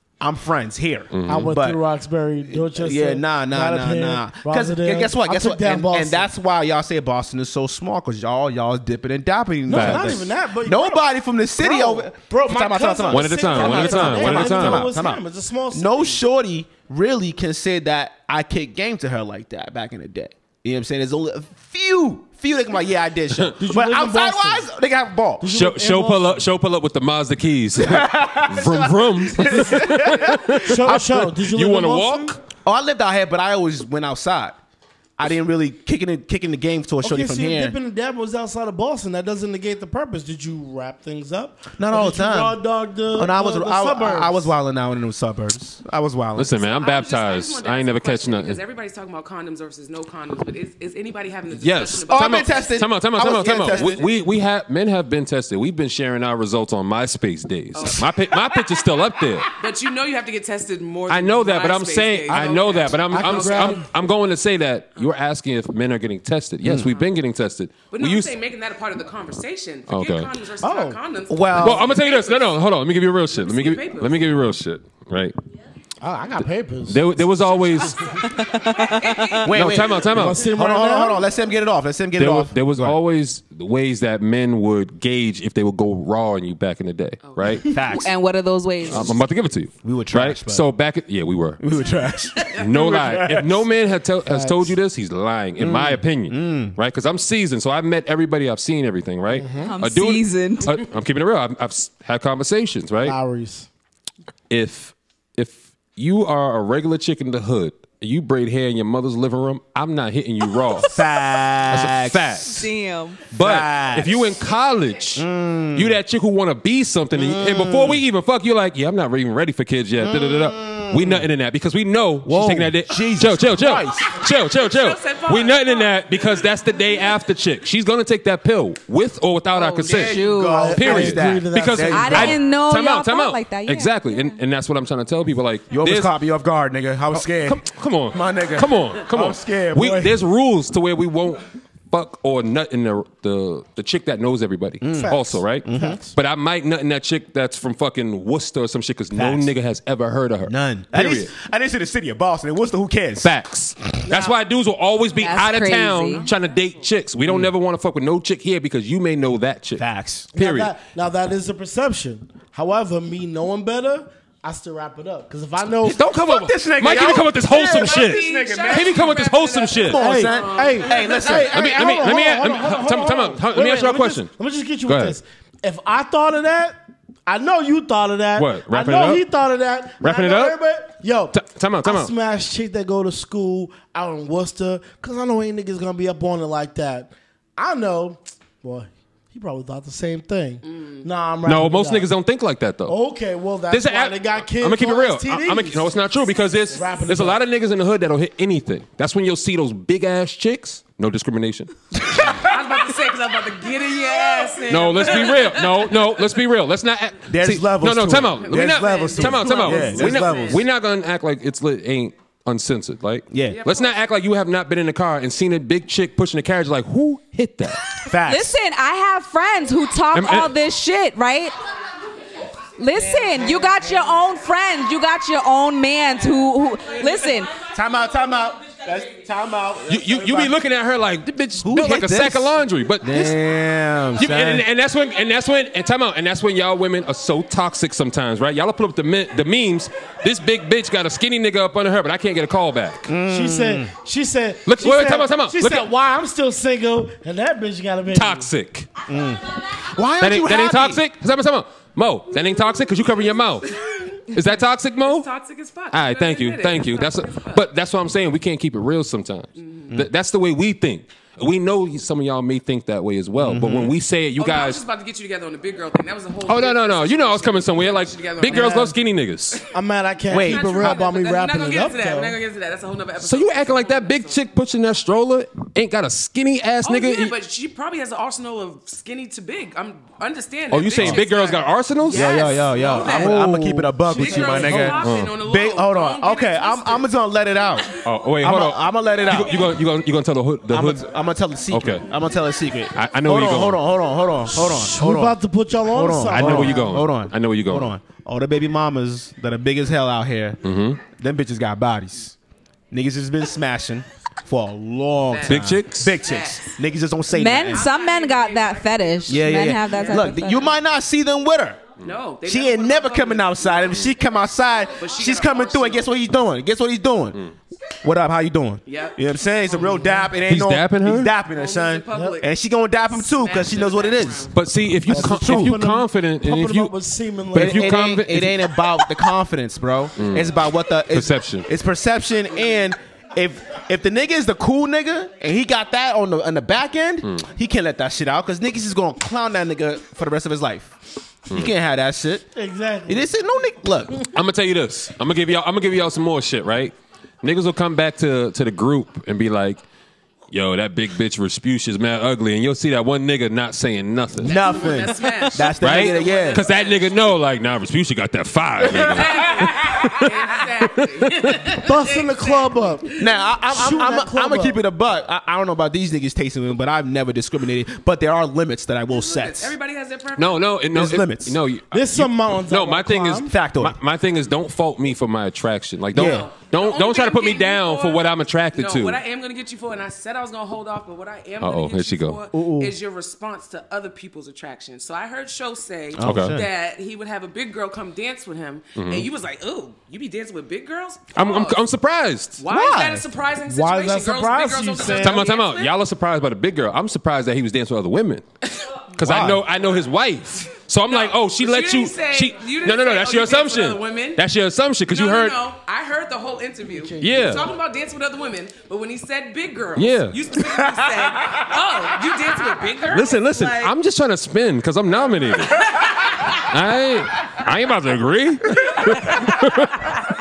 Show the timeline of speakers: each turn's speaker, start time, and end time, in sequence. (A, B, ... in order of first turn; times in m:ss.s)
0:00.2-0:01.8 A
0:01.1-0:01.6 B
0:01.3-0:06.3 C
0:02.5-0:25.5 A
0:09.7-0:11.0 C
0:09.7-0:10.2 B
0:11.6-0:16.2 C
0:13.1-0:14.9 B
0:23.6-0:24.7 C
0:25.4-0:26.4 C
0:25.4-0:32.4 B
0:27.8-0:31.1 A
0:30.7-0:32.4 C
0:32.6-0:34.6 A
0:35.2-0:37.8 A
0:37.0-0:44.5 C
0:41.8-0:42.6 A
0:43.1-0:46.5 A
0:46.4-0:48.6 B
0:46.6-0:54.1 D
0:51.5-0:59.5 B
0:52.1-0:54.0 A
0:57.7-0:58.2 D
0:59.6-1:03.8 D
1:01.1-1:08.3 B
1:03.1-1:03.8 C
1:06.6-1:06.9 A
1:07.9-1:12.6 D
1:09.9-1:10.3 B
1:10.6-1:11.0 C
1:11.3-1:11.9 A
1:11.6-1:15.4 B
1:13.3-1:14.4 D
1:16.0-1:17.3 C
1:16.9-1:18.0 B
1:19.0-1:19.4 D
1:19.4-1:23.0 A
1:19.5-1:20.5 B
1:20.1-1:21.2 C
1:22.2-1:27.7 B
1:27.2-1:27.8 D
1:27.6-1:28.1 A
1:27.9-1:29.1 E
1:28.9-1:31.6 B
1:29.8-1:30.6 A
1:31.6-1:33.6 A
1:32.5-1:32.8 D
1:32.5-1:43.2 B
1:34.2-1:34.7 C
1:35.6-1:36.8 A
1:39.3-1:39.7 C
1:39.6-1:40.7 E
1:43.0-1:43.7 C
1:44.5-1:51.0 B
1:50.8-1:52.7 A
1:51.7-1:52.7 B
1:52.5-1:53.2 E
1:53.3-2:10.2 B
1:53.3-1:54.3 A
1:55.2-1:56.0 A
1:57.1-1:58.0 A
2:00.0-2:01.3 A
2:02.2-2:04.1 A
2:04.6-2:07.1 D
2:09.6-2:10.8 E
2:09.8-2:12.4 A
2:10.5-2:12.4 C
2:10.7-2:16.1 B
2:11.9-2:14.4 E
2:15.7-2:20.1 A
2:17.1-2:31.3 B
2:24.8-2:26.0 A
2:24.9-2:26.1 C
2:29.1-2:29.5 A
2:30.4-2:33.3 A
2:33.2-2:40.7 B
2:35.2-2:36.2 E
2:36.1-2:36.7 D
2:39.8-2:40.3 A
2:40.4-2:46.0 C
2:45.8-2:49.1 A
2:45.9-2:50.0 B
2:47.7-2:51.5 D
2:49.8-2:52.0 A
2:50.0-3:12.1 C
2:51.5-2:54.3 B
2:54.8-2:55.2 B
2:58.3-2:59.2 B
3:00.0-3:00.6 B
3:01.3-3:02.1 B
3:10.6-3:11.0 D
3:11.4-3:13.0 B
3:12.9-3:15.9 C
3:13.7-3:22.3 B
3:16.7-3:17.4 C
3:22.3-3:26.3 D
3:24.7-3:38.0 B
3:27.3-3:30.6 A
3:28.3-3:30.7 D
3:33.3-3:33.6 A
3:33.5-3:34.0 D
3:38.0-3:38.6 A
3:38.2-3:41.6 E
3:40.1-3:40.5 B
3:42.8-3:47.5 E
3:47.7-3:50.5 A
3:49.9-3:53.4 B
3:51.6-3:54.6 A
3:54.2-4:03.1 B
4:03.1-4:03.9 A
4:03.3-4:08.5 C
4:04.6-4:05.9 B
4:08.1-4:08.9 B
4:09.1-4:11.0 A
4:10.2-4:13.7 B
4:14.3-4:15.3 B
4:14.3-4:17.7 D
4:15.9-4:24.8 B
4:19.6-4:19.9 D
4:23.4-4:23.9 A
4:24.4-4:28.9 D
4:26.4-4:29.6 B
4:28.5-4:28.9 C
4:29.7-4:32.4 C
4:30.3-4:31.0 A
4:30.4-4:34.4 D
4:33.2-4:37.4 B
4:36.8-4:47.1 D
4:40.7-4:45.4 B
4:41.0-4:41.2 A
4:42.1-4:49.7 A
4:48.0-4:51.0 B
4:50.7-5:02.3 A
4:51.7-4:52.0 B
4:52.9-4:53.8 B
4:54.6-4:56.9 C
4:56.3-4:57.9 B
5:00.6-5:01.0 B
5:02.9-5:07.9 A
5:05.3-5:06.8 D
5:05.5-5:06.2 B
5:07.3-5:10.7 E
5:07.7-5:10.7 D
5:09.3-5:11.8 A
5:12.0-5:14.0 D
5:12.4-5:17.4 A
5:14.9-5:16.1 D
5:18.0-5:24.5 A
5:18.8-5:20.3 D
5:20.4-5:21.3 B
5:21.4-5:22.5 D
5:22.1-5:22.4 C
5:23.1-5:24.6 D
5:24.5-5:26.9 B
5:25.1-5:27.9 C
5:25.1-5:25.7 A
5:27.5-5:29.0 B
5:27.5-5:42.4 A
5:30.2-5:30.6 B
5:31.1-5:31.7 B
5:42.5-5:43.3 C
5:43.1-5:44.2 A
5:44.3-5:49.8 B
5:50.5-5:54.6 B
5:54.4-5:57.3 D
5:54.4-5:56.7 A
5:55.7-6:01.6 B
5:58.8-6:03.2 D
6:01.8-6:04.8 C
6:03.2-6:09.7 A
6:09.1-6:10.8 D
6:10.4-6:19.2 B
6:10.9-6:11.6 A
6:11.9-6:13.5 C
6:13.5-6:14.0 A
6:16.1-6:16.5 A
6:16.1-6:31.8 D
6:21.6-6:22.4 B
6:22.5-6:22.9 C
6:26.2-6:26.7 A
6:26.2-6:26.6 B
6:28.9-6:29.3 B
6:31.3-6:32.6 B
6:32.6-6:35.9 D
6:32.6-6:33.2 A
6:33.6-6:35.4 C
6:35.1-6:38.4 B
6:39.2-6:45.6 B
6:39.2-6:39.6 A
6:41.1-6:44.4 D
6:45.1-6:53.9 D
6:47.0-6:47.5 C
6:47.2-6:47.6 B
6:49.9-6:50.4 B
6:53.1-6:55.8 B
6:56.6-7:00.1 B